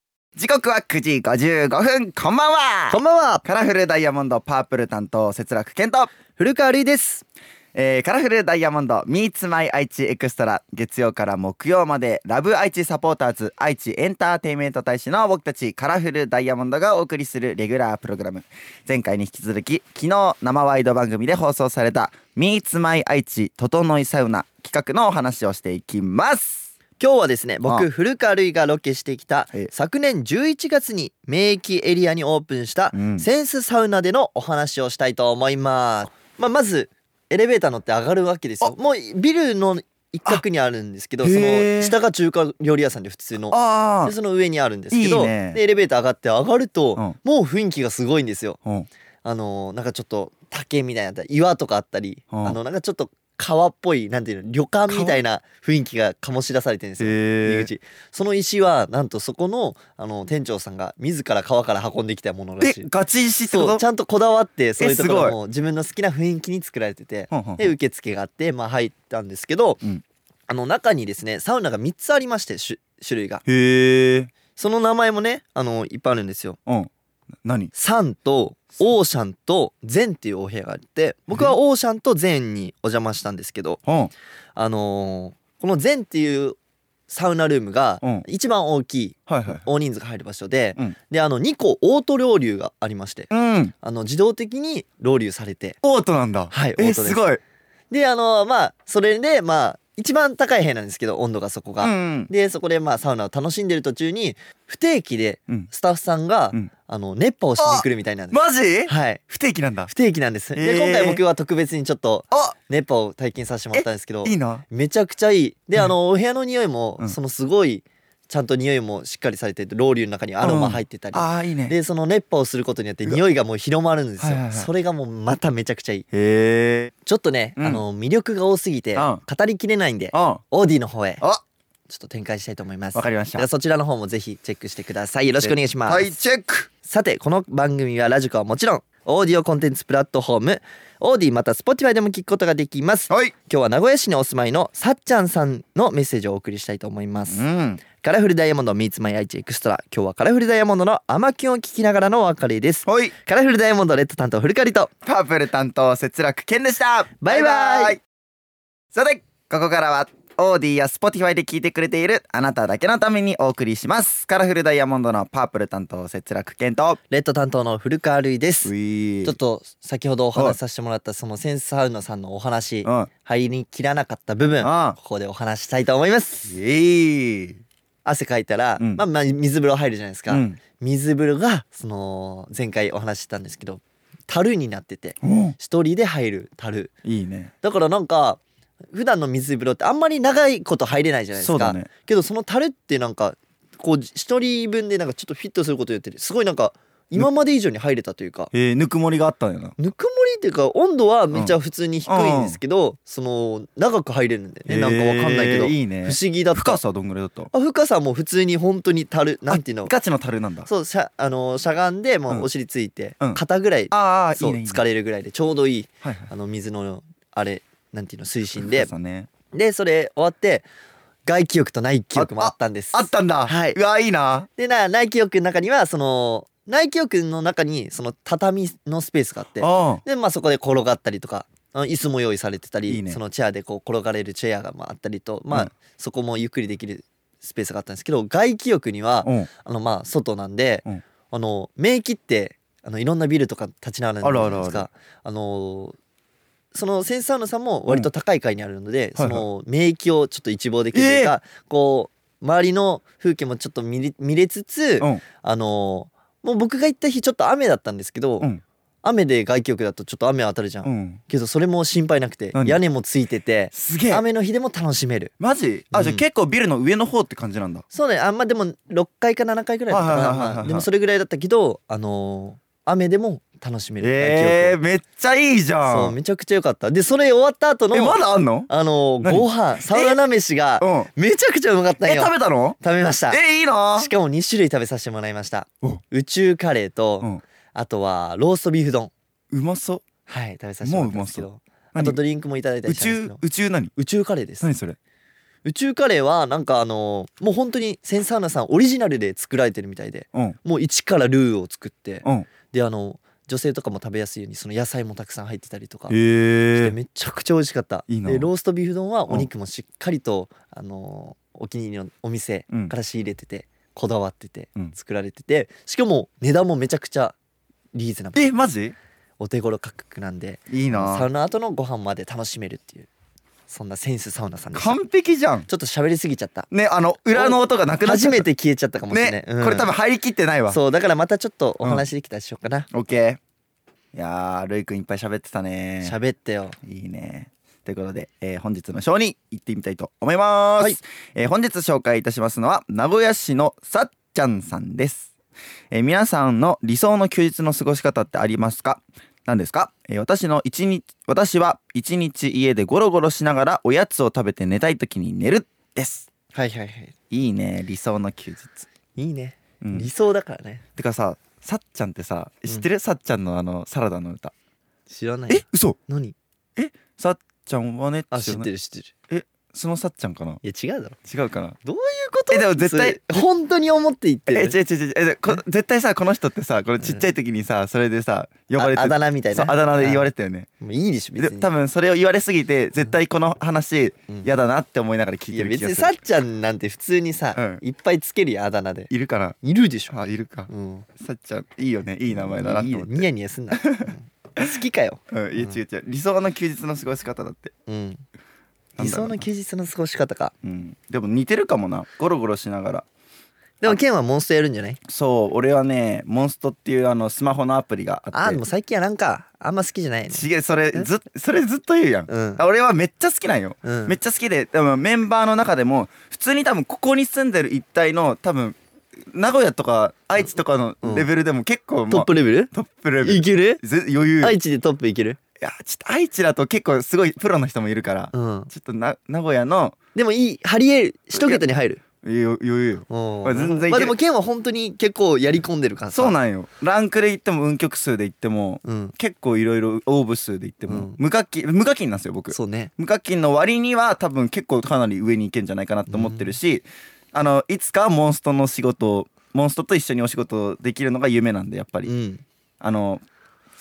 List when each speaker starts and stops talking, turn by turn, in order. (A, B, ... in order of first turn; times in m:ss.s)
0:00.4-0:06.1 A
0:02.9-0:03.4 B
0:06.4-0:07.2 B
0:07.7-0:26.7 A
0:27.0-0:48.6 B
0:32.9-0:33.2 A
0:41.2-0:41.9 A
0:43.4-0:44.1 A
0:44.9-0:45.6 A
0:49.2-1:02.8 B
0:52.3-0:52.6 A
0:54.9-0:55.2 A
0:57.0-0:57.7 A
1:02.6-1:03.8 A
1:03.5-1:09.8 B
1:04.8-1:05.4 A
1:07.3-1:07.7 A
1:10.5-1:13.4 B
1:13.4-1:14.3 A
1:14.6-1:16.6 B
1:17.4-1:17.7 A
1:17.7-1:23.8 B
1:23.8-1:24.1 A
1:24.5-1:26.6 B
1:27.1-1:35.8 B
1:29.3-1:29.6 A
1:33.3-1:33.7 A
1:35.8-1:37.4 A
1:36.5-1:37.2 B
1:37.9-1:49.2 B
1:41.8-1:42.3 A
1:47.6-1:49.9 A
1:49.9-2:06.0 B
1:50.5-1:51.2 A
1:52.3-1:52.6 A
1:53.7-1:54.6 A
2:00.4-2:01.7 A
2:04.2-2:04.7 A
2:06.1-2:06.9 A
2:07.0-2:11.2 B
2:07.6-2:07.8 A
2:09.0-2:09.2 A
2:10.1-2:10.4 A
2:11.9-2:16.2 B
2:12.9-2:13.5 A
2:15.4-2:16.7 A
2:16.8-2:34.9 B
2:27.3-2:27.8 A
2:32.8-2:33.1 A
2:35.0-2:38.0 A
2:37.2-2:38.0 B
2:38.9-2:47.0 A
2:47.1-2:48.7 B
2:48.6-2:49.4 A
2:49.2-2:56.5 B
2:52.8-2:53.1 A
2:54.6-2:55.0 A
2:56.4-2:57.6 A
2:58.0-3:06.9 B
2:58.8-2:59.0 A
3:00.3-3:00.6 A
3:05.2-3:05.5 A
3:07.0-3:07.5 A
3:07.6-3:08.4 B
3:08.9-3:18.5 B
3:11.4-3:11.9 A
3:18.5-3:19.8 A
3:19.8-3:26.8 B
3:21.3-3:22.6 A
3:24.7-3:27.5 A
3:27.5-3:29.9 B
3:29.5-3:30.7 A
3:30.6-3:38.9 B
3:33.9-3:34.8 A
3:36.0-3:36.3 A
3:38.6-3:39.3 A
3:39.5-3:40.6 B
3:41.2-3:43.8 B
3:42.1-3:44.5 A
3:44.6-4:06.0 B
3:49.6-3:50.0 A
3:52.9-3:53.2 A
3:59.2-3:59.5 A
4:04.2-4:04.9 A
4:06.7-4:18.5 B
4:09.2-4:09.4 A
4:10.9-4:11.3 A
4:19.0-4:25.3 B
4:20.8-4:21.2 A
4:22.5-4:22.8 A
4:23.7-4:24.2 A
4:25.4-4:27.8 A
4:25.9-4:26.2 B
4:27.9-4:34.8 B
4:29.9-4:30.9 A
4:34.0-4:36.2 A
4:35.8-4:43.4 B
4:37.9-4:38.7 A
4:39.2-4:40.2 A
4:40.8-4:41.1 A
4:42.0-4:42.8 A
4:43.3-4:44.1 A
4:43.9-4:49.1 B
4:49.5-4:50.0 A
4:50.2-4:53.4 B
4:50.8-4:52.2 A
4:52.8-4:53.9 A
4:54.0-4:54.7 B
4:54.6-4:55.0 A
4:55.6-5:06.2 B
5:06.1-5:06.9 A
5:06.7-5:17.3 B
5:08.1-5:08.5 A
5:17.9-5:18.6 B
5:18.4-5:18.9 A
5:19.4-5:23.1 B
5:20.7-5:21.3 A
5:23.7-5:25.0 B
5:24.7-5:25.7 A
5:25.7-5:26.7 B
5:26.7-5:28.5 A
5:27.3-5:29.9 B
5:29.1-5:30.8 A
5:30.7-5:32.9 B
5:32.9-5:33.4 A
5:34.1-5:36.2 A
5:36.0-5:36.8 B
5:36.8-5:45.3 A
5:45.9-5:56.3 A
5:56.5-5:57.1 B
5:57.3-5:58.8 A
5:59.1-6:00.8 B
5:59.8-6:00.1 A
6:01.0-6:04.5 A
6:05.1-6:06.3 B
6:05.5-6:06.0 A
6:06.8-6:08.7 A
6:08.3-6:09.1 B
6:09.3-6:10.6 A
6:10.6-6:11.2 B
6:11.2-6:11.8 A
6:11.8-6:14.8 B
6:12.5-6:13.2 A
6:14.5-6:20.7 A
6:18.8-6:20.3 B
6:20.8-6:21.7 B
6:21.4-6:26.2 A
6:25.5-6:29.1 B
6:27.5-6:27.8 A
6:29.1-6:29.6 A
6:29.6-6:30.2 B
6:30.1-6:34.6 A
6:30.7-6:31.1 B
6:32.3-6:35.8 B
6:35.3-6:37.7 A
6:37.9-6:38.2 B
6:39.0-6:39.4 A
6:39.0-6:40.5 B
6:40.6-6:43.0 A
6:43.8-6:45.0 B
6:45.0-6:48.6 A
6:48.3-6:51.1 B
6:50.3-6:58.8 A
6:52.3-6:52.6 B
6:53.8-6:54.2 B
6:59.3-7:04.6 A
7:01.0-7:01.3 B
7:02.1-7:02.7 B
7:03.2-7:03.8 B
7:04.4-7:05.4 B
7:05.6-7:10.0 A
7:08.3-7:08.7 B
7:10.1-7:12.0 B
7:11.3-7:11.6 A
7:12.2-7:14.2 A
7:13.1-7:16.3 B
7:16.1-7:32.1 A
7:18.8-7:19.1 B
7:20.9-7:21.2 B
7:22.5-7:22.9 B
7:26.1-7:26.5 B
7:32.0-7:32.4 B
7:32.8-7:33.2 A